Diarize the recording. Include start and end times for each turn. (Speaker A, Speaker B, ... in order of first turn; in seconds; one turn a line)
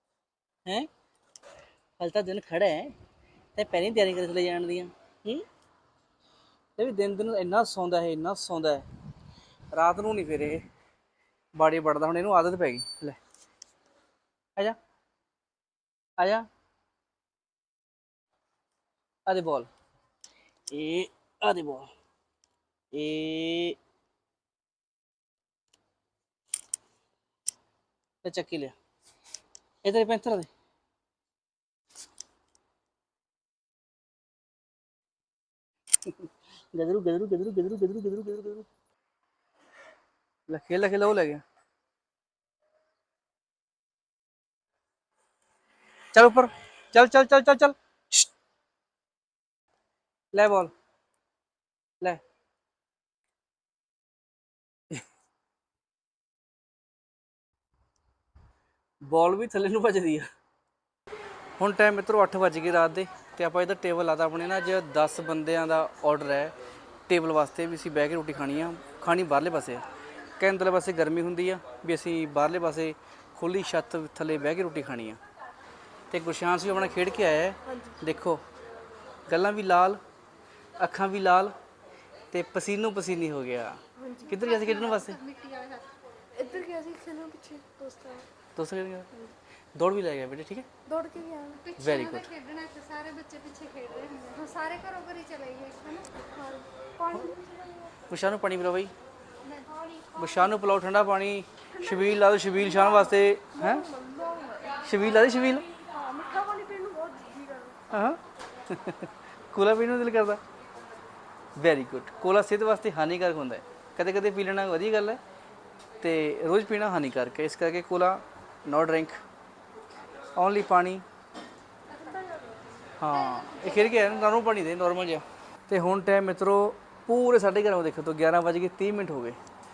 Speaker A: 2.0-2.9
Speaker A: 3.6-5.5
Speaker A: 6.8-8.9
Speaker A: 9.7-10.6
Speaker A: 11.6-13.2
Speaker A: 16.2-16.5
Speaker A: 19.3-19.7
Speaker A: 20.7-21.9
Speaker A: 22.9-23.8
Speaker A: 28.2-28.8
Speaker A: 29.9-30.5
Speaker A: 36.7-38.7
Speaker A: 40.5-41.4
Speaker A: 46.1-48.3
Speaker A: 50.3-50.7
Speaker A: 59.0-60.3
Speaker A: 61.6-66.5
Speaker A: 67.1-69.8
Speaker A: 70.4-75.2
Speaker A: 76.1-78.4
Speaker B: 77.7-78.0
Speaker A: 79.3-80.0
Speaker A: 80.8-81.5
Speaker A: 82.3-85.2
Speaker B: 84.0-84.3
Speaker C: 84.3-86.8
Speaker B: 86.5-88.3
Speaker A: 88.5-89.1
Speaker A: 89.8-90.7
Speaker B: 90.9-91.5
Speaker C: 91.6-96.1
Speaker A: 91.8-92.3
Speaker B: 96.3-97.9
Speaker A: 98.1-98.9
Speaker C: 99.4-100.6
Speaker A: 100.2-103.9
Speaker C: 102.6-103.1
Speaker B: 103.5-104.7
Speaker A: 104.8-105.7
Speaker B: 105.8-107.8
Speaker A: 107.9-110.4
Speaker A: 111.6-115.2
Speaker A: 116.0-119.2
Speaker A: 120.4-121.0
Speaker C: 121.9-122.6
Speaker A: 123.0-129.4
Speaker C: 123.1-124.2